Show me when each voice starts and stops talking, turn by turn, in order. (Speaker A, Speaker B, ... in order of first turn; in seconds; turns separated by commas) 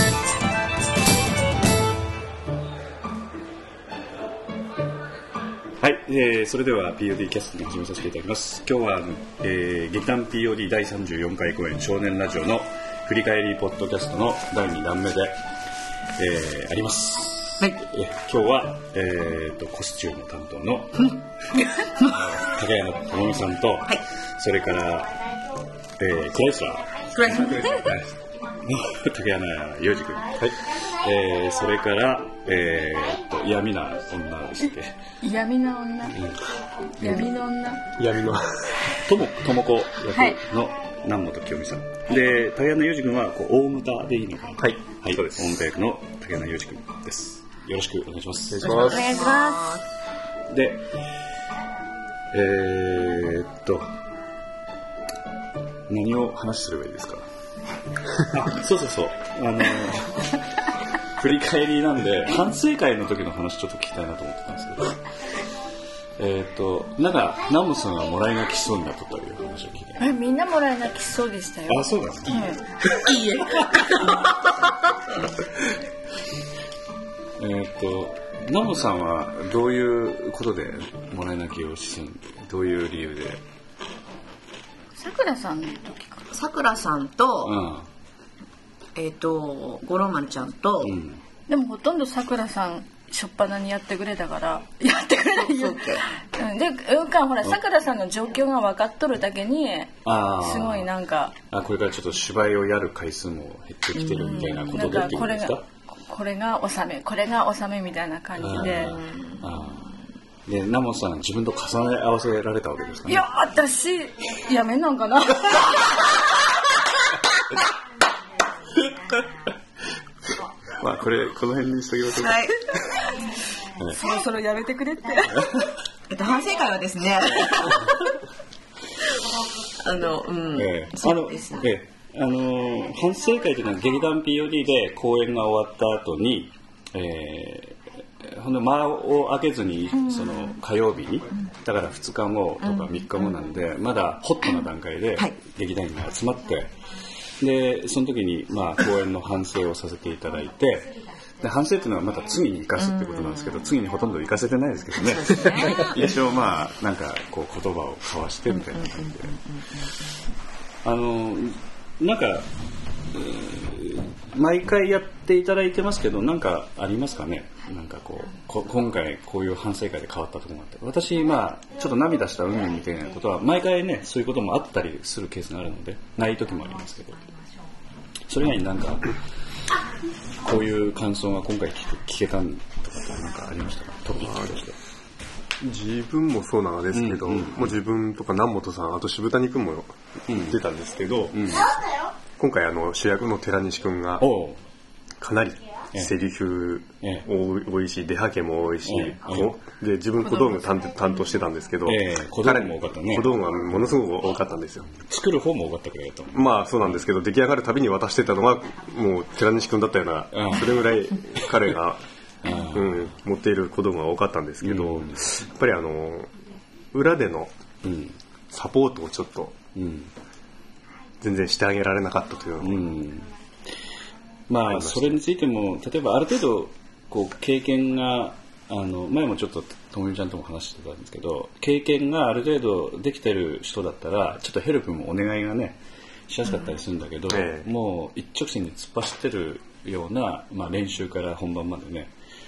Speaker A: 5.8-15.4, Speaker A: 16.1-25.1, Speaker B: 21.8-22.1, Speaker A: 26.0-28.1, Speaker B: 27.1-27.9, Speaker A: 28.6-35.0, Speaker C: 35.2-36.3, Speaker C: 37.0-37.8, Speaker A: 37.0-37.3, Speaker D: 38.0-38.7, Speaker A: 39.0-49.0, Speaker C: 40.1-40.4, Speaker D: 44.5-45.5, Speaker D: 48.5-49.1, Speaker B: 48.6-49.8, Speaker C: 48.8-49.7, Speaker A: 50.5-50.8, Speaker A: 52.3-53.9, Speaker A: 55.9-57.2, Speaker A: 58.2-60.4, Speaker A: 61.2-65.0, Speaker A: 66.2-70.1, Speaker C: 70.0-72.6, Speaker A: 71.7-72.4, Speaker B: 72.9-74.9, Speaker A: 77.4-83.4, Speaker C: 85.0-86.3, Speaker B: 86.3-87.6, Speaker A: 87.4-87.9, Speaker B: 88.9-91.0, Speaker A: 90.8-91.2, Speaker C: 91.5-101.3, Speaker B: 95.3-96.0, Speaker A: 100.0-100.9, Speaker A: 101.5-105.6, Speaker B: 103.9-105.1, Speaker C: 104.2-109.0, Speaker A: 108.4-109.9, Speaker B: 108.7-109.5, Speaker A: 110.5-113.3, Speaker C: 113.0-116.3, Speaker A: 120.8-122.6, Speaker B: 122.1-122.5, Speaker C: 123.9-125.5, Speaker A: 125.3-125.7, Speaker B: 126.1-128.1, Speaker B: 129.8-131.7, Speaker A: 130.5-146.7, Speaker B: 140.1-140.6, Speaker B: 142.6-143.6, Speaker A: 147.4-159.3, Speaker B: 152.8-153.6, Speaker B: 154.9-156.2, Speaker B: 158.5-160.0, Speaker A: 160.8-162.4, Speaker A: 163.1-177.2, Speaker A: 178.3-179.1, Speaker A: 180.4-184.8, Speaker D: 184.2-184.6, Speaker D: 185.6-191.5, Speaker A: 186.9-187.7, Speaker A: 190.3-190.6, Speaker A: 191.3-191.7, Speaker D: 192.4-194.3, Speaker A: 194.2-194.6, Speaker D: 195.2-204.9, Speaker A: 198.8-199.5, Speaker A: 201.8-203.7, Speaker A: 205.0-206.9, Speaker D: 206.3-212.0, Speaker A: 210.3-210.8, Speaker A: 212.4-213.0, Speaker D: 212.7-216.3, Speaker A: 214.6-215.2, Speaker D: 216.9-217.5, Speaker A: 217.8-218.2, Speaker D: 218.5-219.6, Speaker A: 219.7-220.1, Speaker D: 221.2-222.8, Speaker A: 222.6-223.3, Speaker A: 224.5-242.1, Speaker D: 224.7-225.2, Speaker D: 237.3-237.7